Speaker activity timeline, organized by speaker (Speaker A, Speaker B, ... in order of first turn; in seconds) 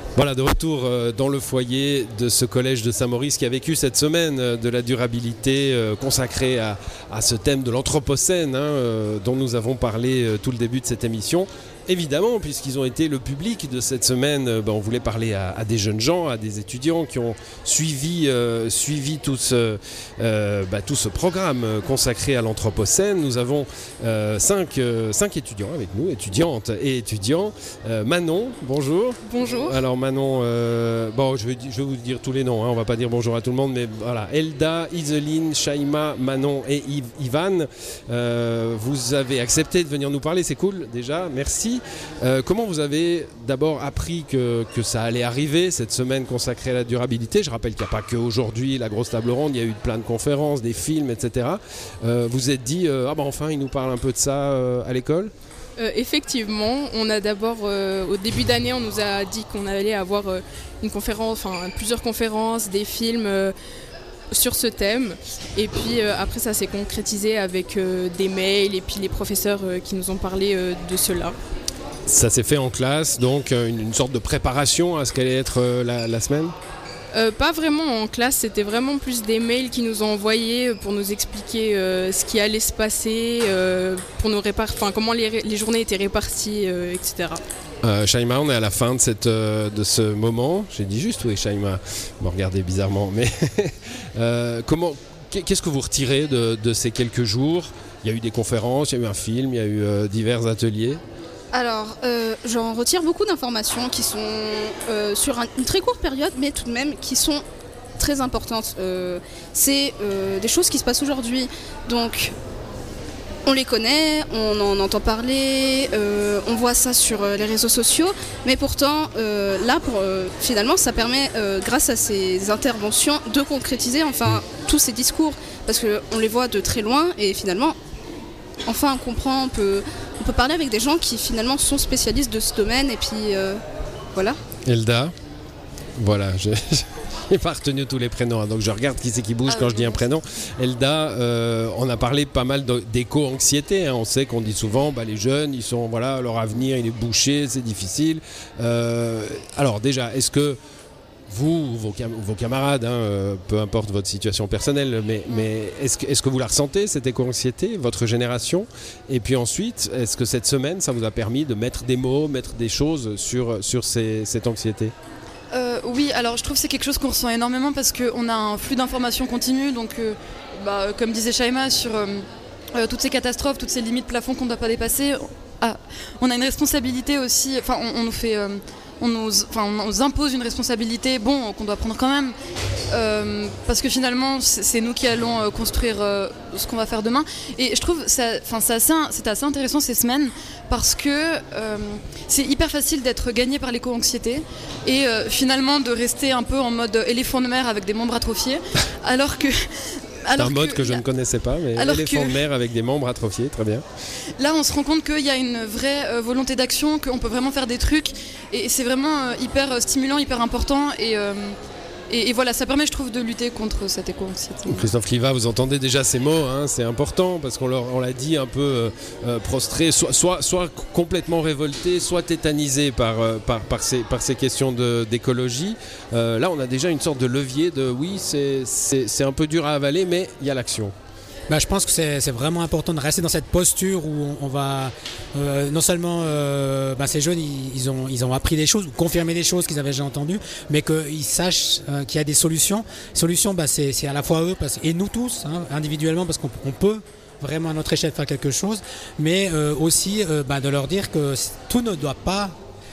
Speaker A: 0.2-55.3, 72.1-76.5, 87.8-101.0, 134.7-135.1, 136.0-150.6, 151.3-164.9, 200.4-203.8, 214.7-230.9
Speaker B: 29.3-29.8, 55.8-63.6, 64.3-71.4, 77.1-87.4
Speaker C: 101.5-107.4, 108.0-112.3, 113.5-127.8, 128.7-133.6
Speaker D: 139.5-140.0, 165.5-182.3, 182.9-201.0, 201.8-202.4, 204.4-211.6, 212.1-214.9
Speaker E: 231.5-252.6